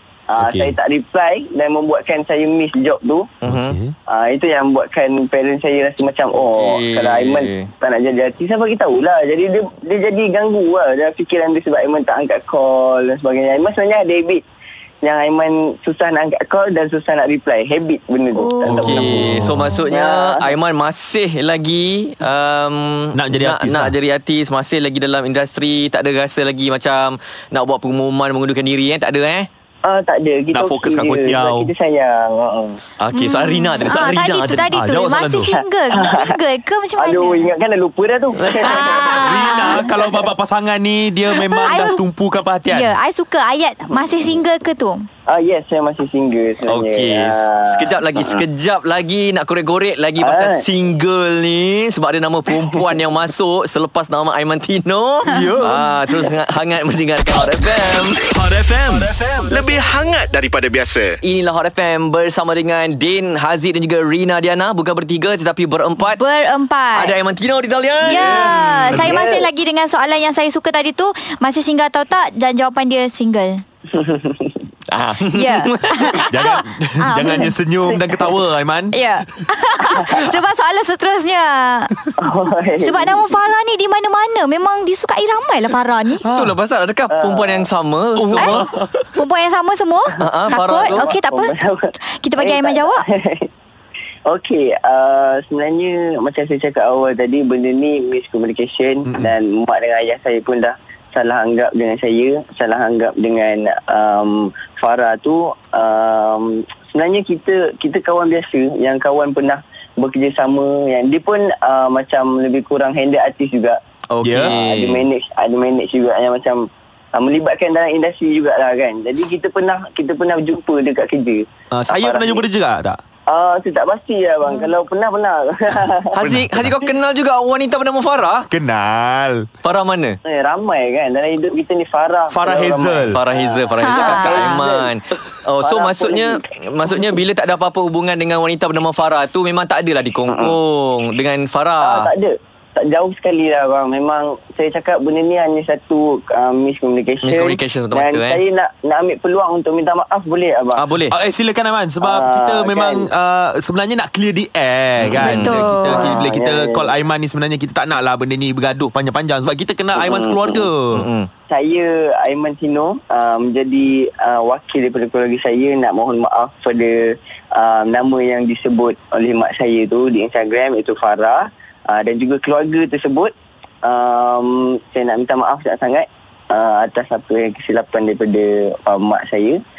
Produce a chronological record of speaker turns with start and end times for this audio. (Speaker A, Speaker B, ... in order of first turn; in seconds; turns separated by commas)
Speaker A: 0.3-3.3, Speaker B: 0.4-0.7, Speaker C: 3.4-3.8, Speaker B: 3.5-3.9, Speaker A: 4.1-14.4, Speaker C: 6.3-7.7, Speaker A: 15.0-19.4, Speaker D: 18.3-18.8, Speaker C: 18.6-29.5, Speaker B: 18.8-19.7, Speaker A: 19.9-20.5, Speaker B: 23.1-23.9, Speaker A: 29.8-32.8, Speaker B: 30.5-31.7, Speaker C: 33.0-34.8, Speaker D: 33.1-37.5, Speaker B: 34.7-35.5, Speaker A: 35.4-36.4, Speaker A: 37.0-39.9, Speaker C: 38.6-38.8, Speaker D: 38.6-40.0, Speaker B: 38.9-42.9, Speaker D: 41.5-42.0, Speaker D: 42.7-45.0, Speaker A: 43.9-44.4, Speaker A: 45.3-48.4, Speaker C: 46.6-58.2, Speaker A: 50.2-50.6, Speaker B: 55.2-55.8, Speaker E: 58.3-61.2, Speaker C: 61.2-66.2, Speaker D: 66.0-67.2, Speaker C: 66.9-68.4, Speaker D: 68.0-73.6, Speaker B: 68.1-69.1, Speaker A: 69.0-69.5, Speaker A: 73.9-74.6, Speaker C: 74.9-76.6, Speaker D: 75.3-77.5, Speaker B: 76.3-79.0, Speaker A: 77.8-78.4, Speaker D: 78.9-82.0, Speaker A: 82.2-83.2, Speaker D: 82.8-86.2, Speaker B: 86.2-86.5, Speaker C: 86.3-88.6, Speaker A: 87.1-87.7, Speaker B: 88.2-89.1, Speaker D: 88.3-93.0, Speaker C: 90.2-91.1, Speaker A: 90.6-93.5, Speaker A: 94.3-113.8, Speaker B: 99.0-99.3, Speaker C: 114.1-115.0, Speaker B: 114.2-114.5, Speaker A: 114.4-122.4, Speaker B: 121.7-123.0, Speaker A: 123.3-126.1, Speaker C: 126.1-128.5, Speaker B: 126.2-126.8, Speaker B: 128.5-129.5, Speaker C: 129.6-130.2, Speaker A: 130.2-134.9, Speaker B: 132.3-133.2, Speaker C: 133.1-142.1, Speaker D: 133.8-134.6, Speaker A: 135.6-137.1, Speaker A: 140.3-140.6, Speaker A: 141.8-150.8, Speaker C: 147.2-148.4, Speaker C: 150.7-151.1, Speaker B: 151.0-161.1, Speaker A: 152.0-153.1, Speaker C: 155.0-155.8, Speaker D: 155.2-156.3, Speaker A: 155.8-156.9, Speaker A: 159.9-160.7, Speaker C: 160.9-161.3, Speaker A: 161.5-173.3, Speaker A: 173.8-179.6